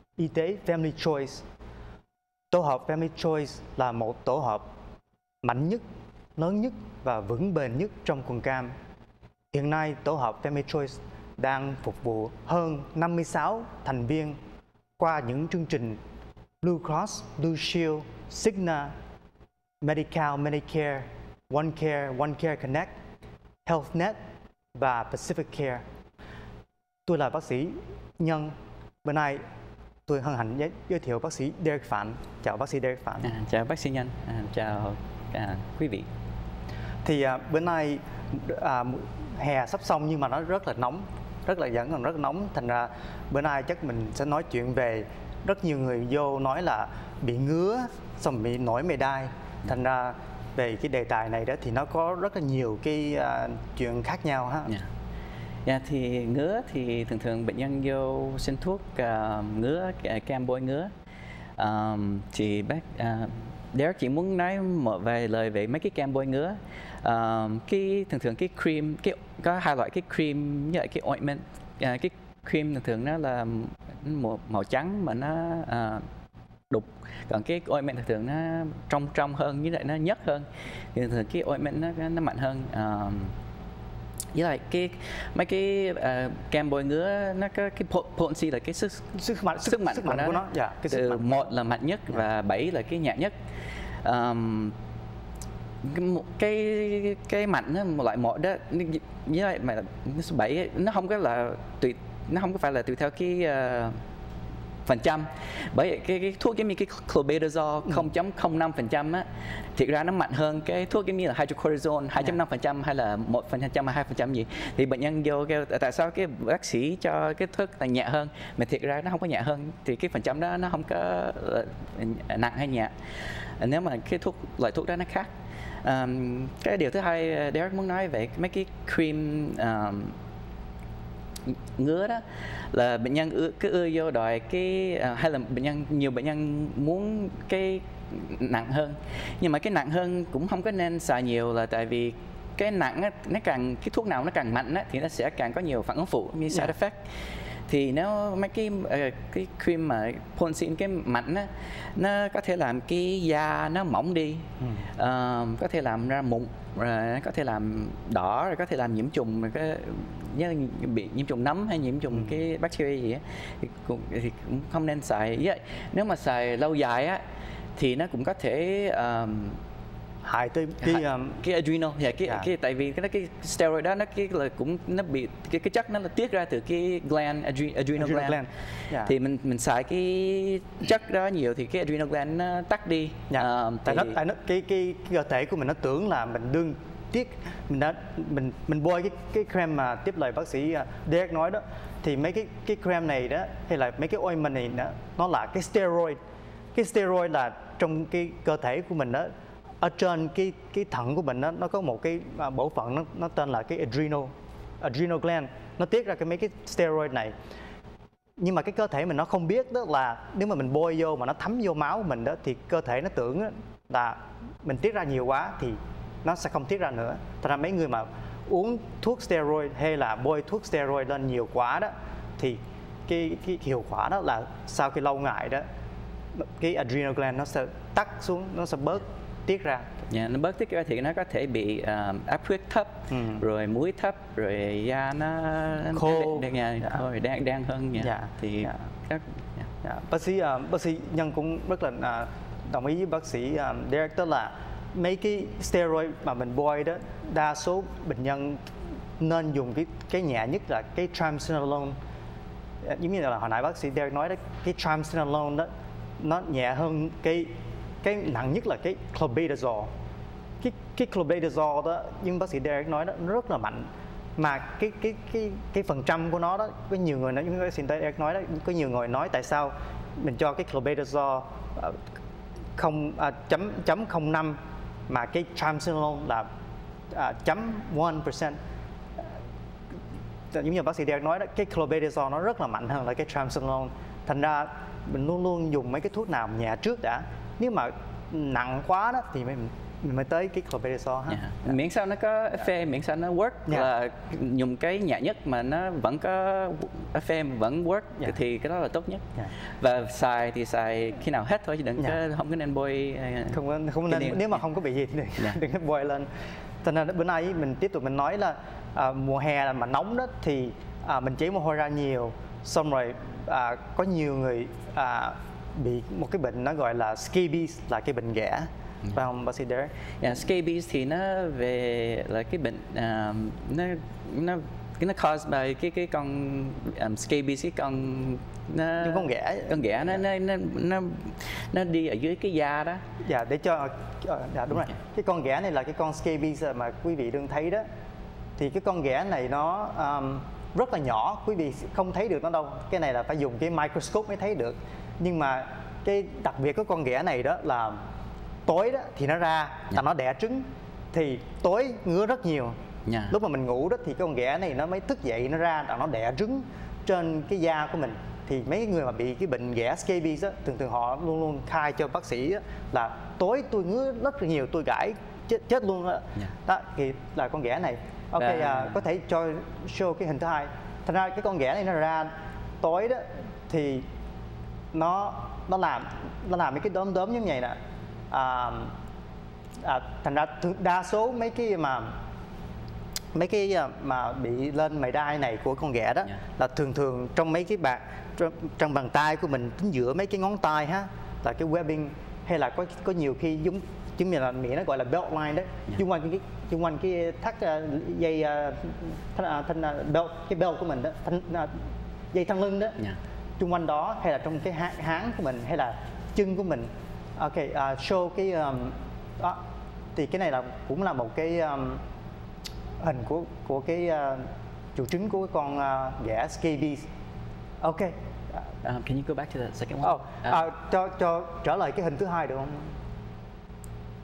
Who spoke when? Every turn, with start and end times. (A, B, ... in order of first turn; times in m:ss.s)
0:00.2-0:01.4 A
0:02.5-0:04.7 A
0:05.4-0:05.8 A
0:06.4-0:08.7 A
0:09.5-0:14.4 A
0:15.0-0:16.0 A
0:16.6-0:18.9 A
0:19.8-0:22.9 A
0:23.6-0:24.2 A
0:24.8-0:25.8 A
0:27.1-0:29.4 A
0:30.1-0:33.3 A
0:33.2-0:36.1 B
0:37.0-0:54.7 A
0:55.6-1:00.9 B
1:01.6-1:16.1 B
1:16.7-1:23.4 B
1:24.3-1:33.3 B
1:29.2-1:31.5 A
1:34.0-1:34.8 B
1:35.8-1:44.0 B
1:44.9-2:02.9 B
2:03.6-2:05.3 B
2:05.8-2:10.2 B
2:11.5-2:27.1 B
2:27.7-2:47.2 B
2:34.6-2:34.9 A
2:47.8-2:49.6 B
2:50.2-2:51.4 A
2:50.8-2:58.4 B
2:52.2-2:52.5 A
2:58.0-2:59.1 A
2:59.0-3:04.2 B
3:03.3-3:16.2 A
3:16.7-3:27.3 A
3:28.4-3:45.6 A
3:46.4-3:49.9 A
3:50.1-3:59.7 B
3:53.1-3:53.4 A
3:55.9-3:57.0 A
3:58.0-3:58.8 A
3:59.8-4:08.6 A
4:09.2-4:12.0 A
4:12.8-4:19.9 A
4:20.6-4:32.0 A
4:32.8-4:36.5 A
4:37.1-4:38.6 A
4:40.5-4:51.8 A
4:51.3-4:59.2 B
4:53.7-4:53.9 A
4:59.8-5:03.6 B
5:03.5-5:06.3 A
5:04.1-5:04.7 B
5:06.8-5:19.9 A
5:20.2-5:33.0 B
5:29.0-5:30.2 A
5:33.2-5:37.8 A
5:38.6-5:48.0 A
5:48.7-5:52.8 A
5:53.1-5:53.4 B
5:53.3-6:14.1 A
6:08.4-6:09.0 B
6:14.9-6:17.8 A
6:18.3-6:18.9 A
6:19.8-6:22.2 A
6:23.3-6:43.0 A
6:43.6-6:49.6 A
6:50.2-6:52.0 A
6:53.0-6:57.1 A
6:57.8-6:58.2 A
6:58.8-7:00.6 B
7:00.0-7:03.0 A